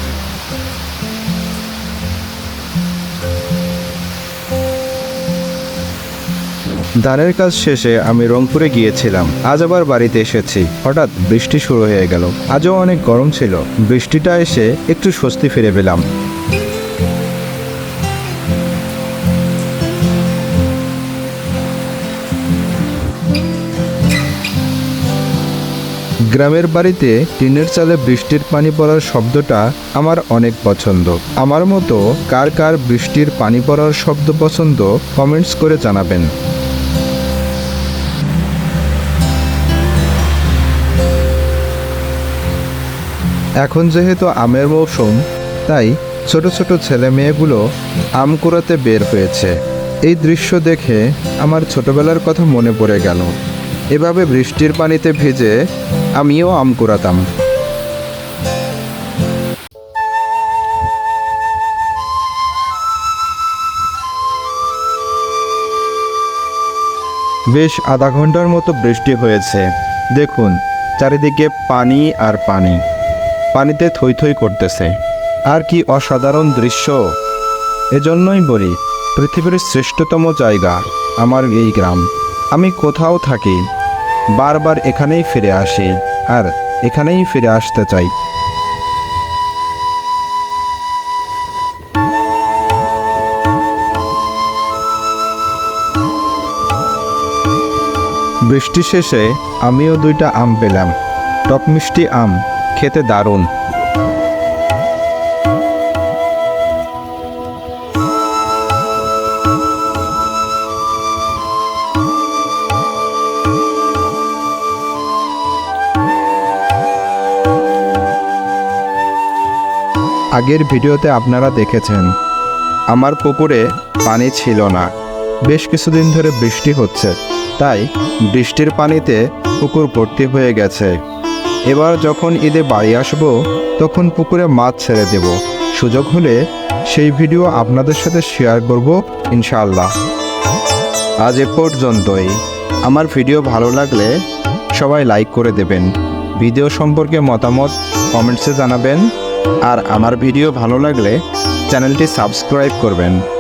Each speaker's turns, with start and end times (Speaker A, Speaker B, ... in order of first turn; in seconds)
Speaker A: 7.0-16.0, 26.3-36.3, 43.6-47.6, 48.2-53.3, 53.9-55.5, 56.2-57.2, 67.5-72.8, 73.5-75.0, 75.5-77.0, 77.9-83.6, 84.3-88.1, 98.5-100.9, 101.5-103.5, 120.3-122.1, 122.9-124.9, 125.5-131.0, 131.7-139.9, 141.2-144.2, 144.8-149.1, 149.7-153.2